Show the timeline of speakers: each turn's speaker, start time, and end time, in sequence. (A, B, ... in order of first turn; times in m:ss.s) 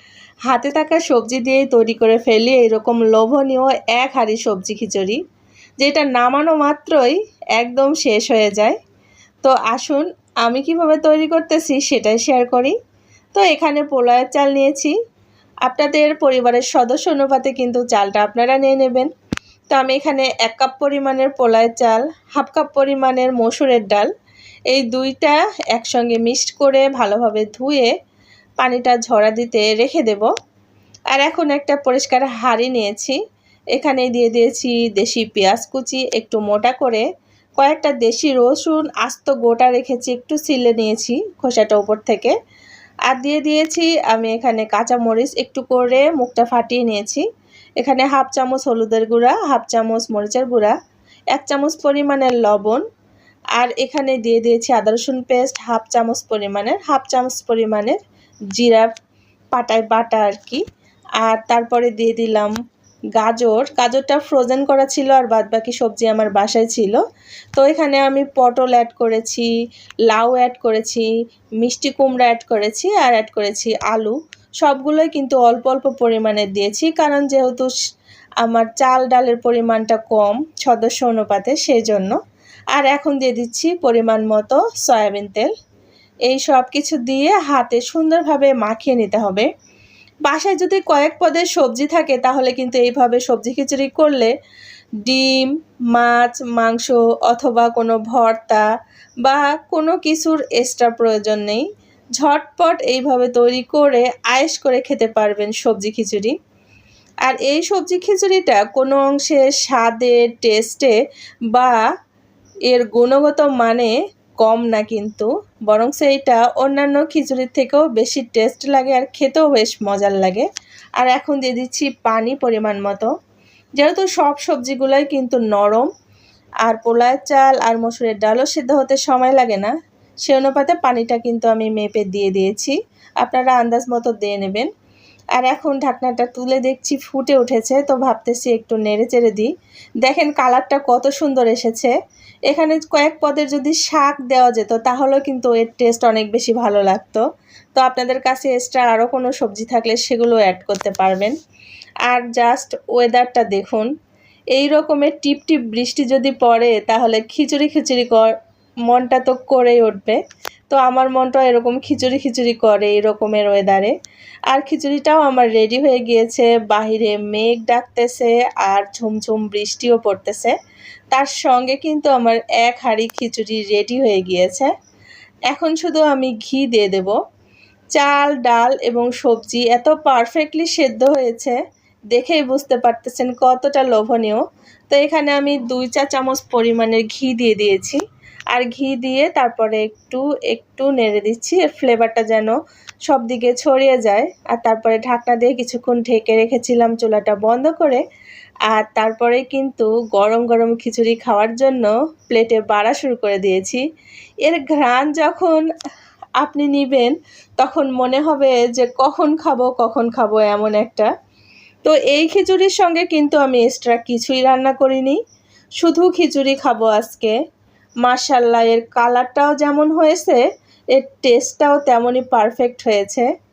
0:00.5-0:05.2 A
0:05.8-0:08.8 A
0:09.4-0:12.8 A
0:13.3-0:14.9 A
0:15.6-0:19.1 A
0:19.7-0:24.1 A
0:24.7-0:27.9 A
0:28.6-0:30.3 A
0:31.1-0:33.2 A
0:33.7-0:37.1 A
0:37.6-0:42.4 A
0:43.1-0:47.2 A
0:47.8-0:50.8 A
0:51.3-0:52.8 A
0:53.6-0:58.0 A
0:58.5-0:58.9 A
0:59.5-1:00.6 A
1:01.2-1:02.5 A
1:03.2-1:07.0 A
1:07.6-1:09.5 A
1:10.1-1:11.1 A
1:11.6-1:17.7 A
1:18.4-1:22.2 A
1:22.7-1:25.5 A
1:26.3-1:29.5 A
1:30.3-1:34.3 A
1:35.0-1:38.7 A
1:39.2-1:41.6 A
1:42.2-1:46.4 A
1:47.2-1:51.0 A
1:52.7-2:00.5 A
2:01.0-2:03.1 A
2:03.8-2:05.9 A
2:06.6-2:09.7 A
2:10.2-2:14.7 A
2:15.4-2:19.5 A
2:20.0-2:21.9 A
2:22.5-2:27.2 A
2:27.8-2:31.4 A
2:32.1-2:33.9 A
2:34.5-2:38.3 A
2:38.9-2:43.9 A
2:44.5-2:50.5 A
2:51.1-2:54.7 A
2:55.5-2:57.2 A
2:58.0-3:01.6 A
3:02.1-3:08.0 A
3:08.5-3:12.5 A
3:13.1-3:18.0 A
3:18.7-3:23.8 A
3:24.4-3:25.6 A
3:26.4-3:31.1 A
3:31.8-3:35.2 A
3:35.8-3:37.4 A
3:38.0-3:40.4 A
3:40.9-3:43.3 A